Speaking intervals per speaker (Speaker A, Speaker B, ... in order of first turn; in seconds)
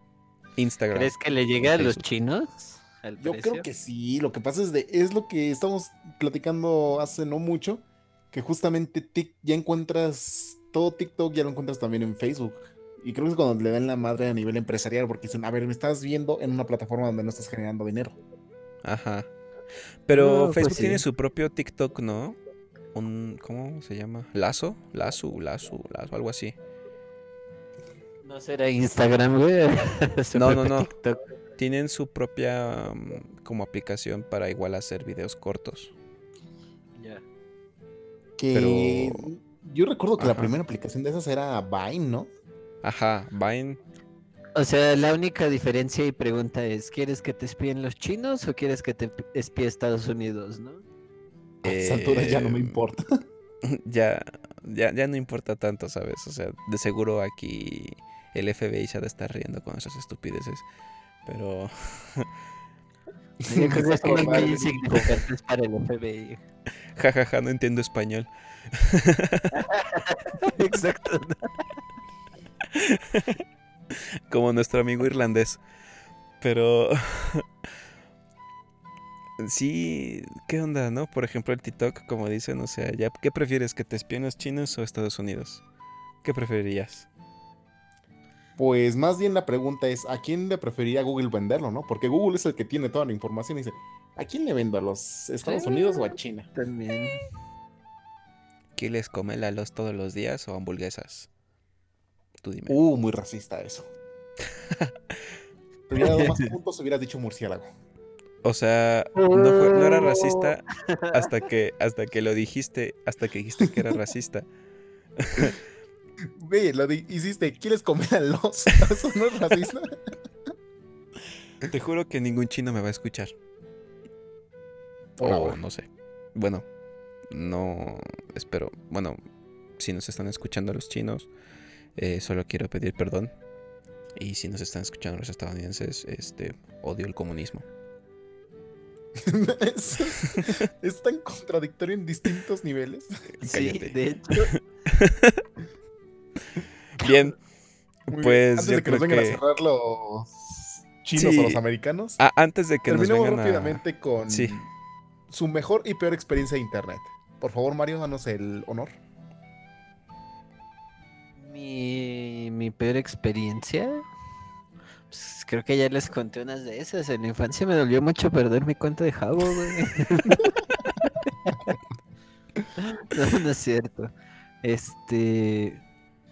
Speaker A: 0.6-2.0, 18.8-19.3, 20.1-22.4, 22.9-26.6, 30.4-30.9, 31.6-35.9, 38.5-39.3, 40.2-40.5, 42.8-43.8, 51.6-52.8, 53.6-60.6, 61.3-62.3, 67.0-69.6, 72.7-73.4, 73.9-75.6, 76.4-77.5, 79.4-85.6, 86.2-87.1, 98.8-101.3, 102.4-102.8, 108.4-114.5, 115.2-115.6, 121.7-123.3, 125.2-126.7, 127.3-129.2, 129.8-131.3, 132.0-133.3, 134.2-137.7, 140.3-140.6, 143.4-145.4, 147.0-147.4, 148.1-149.4, 151.2-151.6, 152.2-154.7
Speaker B: 0.9-3.6, 20.1-21.0, 28.2-31.2, 37.0-37.2, 44.5-50.9, 63.5-66.4, 69.5-71.6, 95.4-97.3, 106.0-106.5, 109.2-111.3, 143.4-144.5, 161.4-164.1, 165.1-170.5, 172.8-174.1, 174.6-175.8
Speaker C: 3.2-18.2, 38.4-42.3, 51.6-53.2, 63.4-65.2, 88.6-96.5, 102.7-103.9, 105.9-107.7, 116.4-120.0, 125.2-125.6, 139.2-143.1, 148.1-152.2, 152.9-154.6, 155.3-159.0